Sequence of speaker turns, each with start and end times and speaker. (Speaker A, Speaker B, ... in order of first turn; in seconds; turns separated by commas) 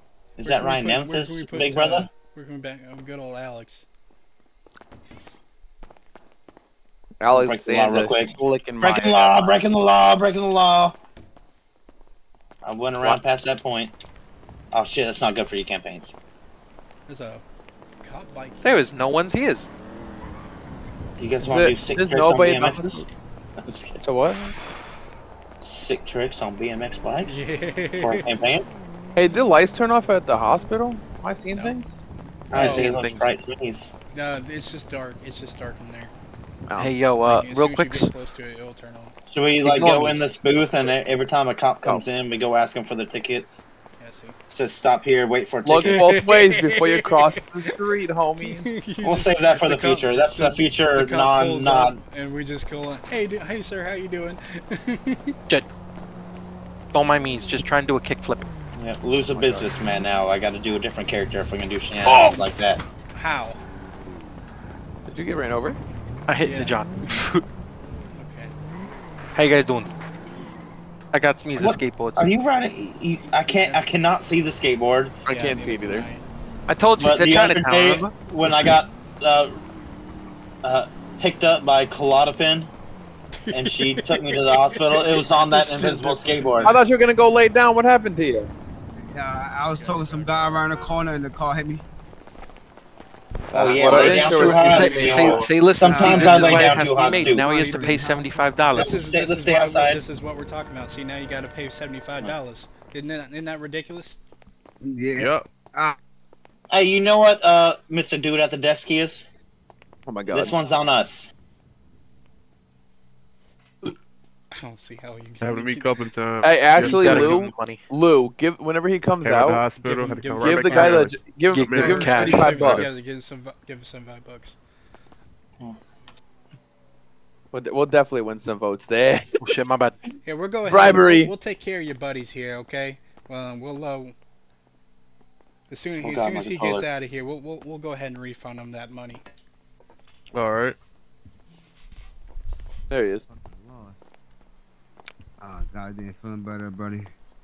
Speaker A: 0.4-2.1, Speaker B: 0.4-3.9, Speaker C: 7.2-9.6, Speaker A: 7.3-11.0, Speaker A: 12.7-13.9, Speaker A: 14.7-16.1, Speaker B: 17.1-17.4, Speaker B: 18.0-18.9, Speaker D: 18.6-19.7, Speaker A: 21.2-23.0, Speaker C: 21.4-23.1, Speaker A: 23.6-24.0, Speaker C: 24.0-24.5, Speaker A: 25.6-27.4, Speaker B: 27.2-28.3, Speaker A: 28.0-28.7, Speaker C: 29.2-31.9, Speaker A: 32.5-33.9, Speaker D: 32.5-33.4, Speaker B: 34.1-36.1, Speaker C: 36.7-37.0, Speaker D: 36.8-38.1, Speaker B: 37.2-39.1, Speaker A: 39.3-43.6, Speaker D: 39.6-40.4, Speaker B: 44.0-44.4, Speaker A: 44.5-46.1, Speaker C: 45.6-48.7, Speaker B: 45.9-47.8, Speaker B: 48.4-55.4, Speaker A: 49.0-52.0, Speaker D: 56.9-58.5, Speaker A: 58.8-62.8, Speaker C: 59.3-59.7, Speaker B: 63.1-63.6, Speaker C: 65.1-65.8, Speaker D: 66.3-67.4, Speaker B: 66.4-66.8, Speaker B: 68.2-68.5, Speaker D: 69.3-69.9, Speaker D: 71.1-72.3, Speaker A: 71.6-75.2, Speaker B: 73.5-73.9, Speaker C: 75.3-76.1, Speaker B: 75.3-76.3, Speaker D: 76.7-78.7, Speaker A: 77.0-79.6, Speaker A: 80.6-82.7, Speaker B: 83.5-86.8, Speaker A: 83.5-86.8, Speaker C: 86.6-88.5, Speaker E: 89.0-91.8, Speaker B: 89.8-90.6, Speaker A: 93.5-97.5, Speaker C: 93.5-95.2, Speaker D: 93.6-99.0, Speaker F: 94.9-95.4, Speaker E: 95.8-96.6, Speaker B: 96.1-98.2, Speaker E: 97.8-98.1, Speaker B: 98.7-104.2, Speaker A: 98.8-100.0, Speaker E: 104.8-106.0, Speaker F: 105.2-105.5, Speaker A: 106.7-109.3, Speaker C: 110.1-110.5, Speaker A: 110.3-111.3, Speaker B: 110.4-110.9, Speaker B: 114.5-116.0, Speaker F: 115.4-117.5, Speaker C: 116.4-119.7, Speaker D: 116.8-117.8, Speaker F: 119.2-122.8, Speaker B: 119.7-121.1, Speaker C: 120.3-122.9, Speaker D: 121.5-122.6, Speaker B: 121.7-124.6, Speaker C: 127.5-129.4, Speaker D: 129.4-130.0, Speaker B: 130.2-134.2, Speaker C: 130.7-131.3, Speaker B: 135.7-139.2, Speaker A: 136.0-136.9, Speaker F: 140.3-140.8, Speaker C: 142.9-143.2, Speaker E: 143.3-144.0, Speaker E: 145.4-147.1